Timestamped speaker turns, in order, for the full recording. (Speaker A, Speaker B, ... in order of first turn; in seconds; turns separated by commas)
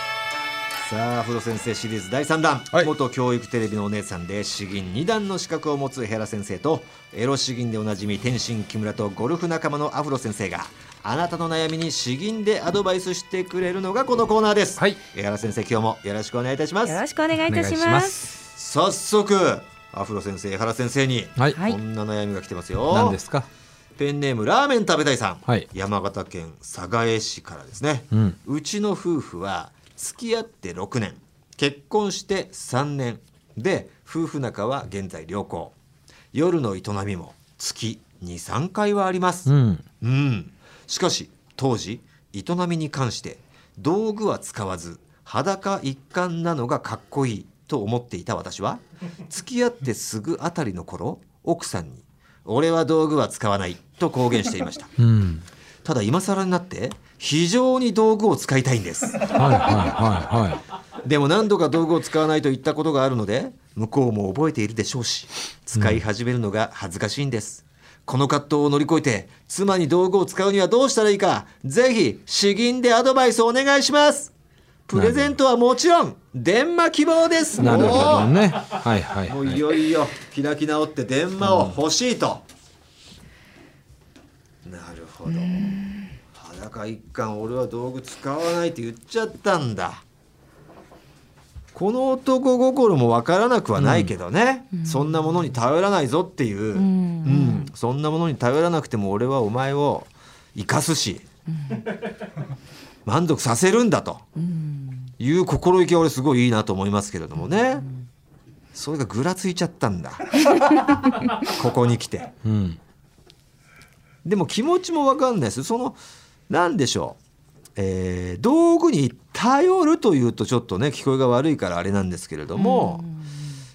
Speaker A: 0.8-17.0, Speaker B: 16.8-18.2, Speaker C: 17.4-18.4, Speaker A: 18.4-23.2, Speaker B: 21.5-21.8, Speaker C: 22.9-23.5, Speaker A: 24.0-35.7, Speaker C: 28.1-28.4, Speaker A: 36.3-54.9, Speaker C: 39.5-39.8, Speaker C: 55.0-55.4, Speaker A: 55.8-59.9, Speaker C: 59.2-60.6, Speaker A: 61.0-74.3, Speaker C: 65.7-66.0, Speaker A: 74.9-78.4, Speaker C: 74.9-75.3, Speaker C: 77.6-79.6, Speaker A: 79.2-82.4, Speaker C: 81.4-81.8, Speaker A: 84.6-85.6, Speaker B: 85.3-86.1, Speaker A: 86.3-90.0, Speaker A: 91.7-101.2, Speaker C: 93.8-94.1, Speaker B: 94.7-95.1, Speaker B: 96.7-97.7, Speaker A: 103.0-104.2, Speaker B: 104.4-105.1, Speaker A: 105.2-107.8, Speaker A: 108.7-110.5, Speaker A: 111.4-112.3, Speaker C: 112.4-112.8, Speaker A: 114.2-116.0, Speaker A: 116.5-117.2, Speaker A: 117.8-123.0, Speaker B: 122.5-123.6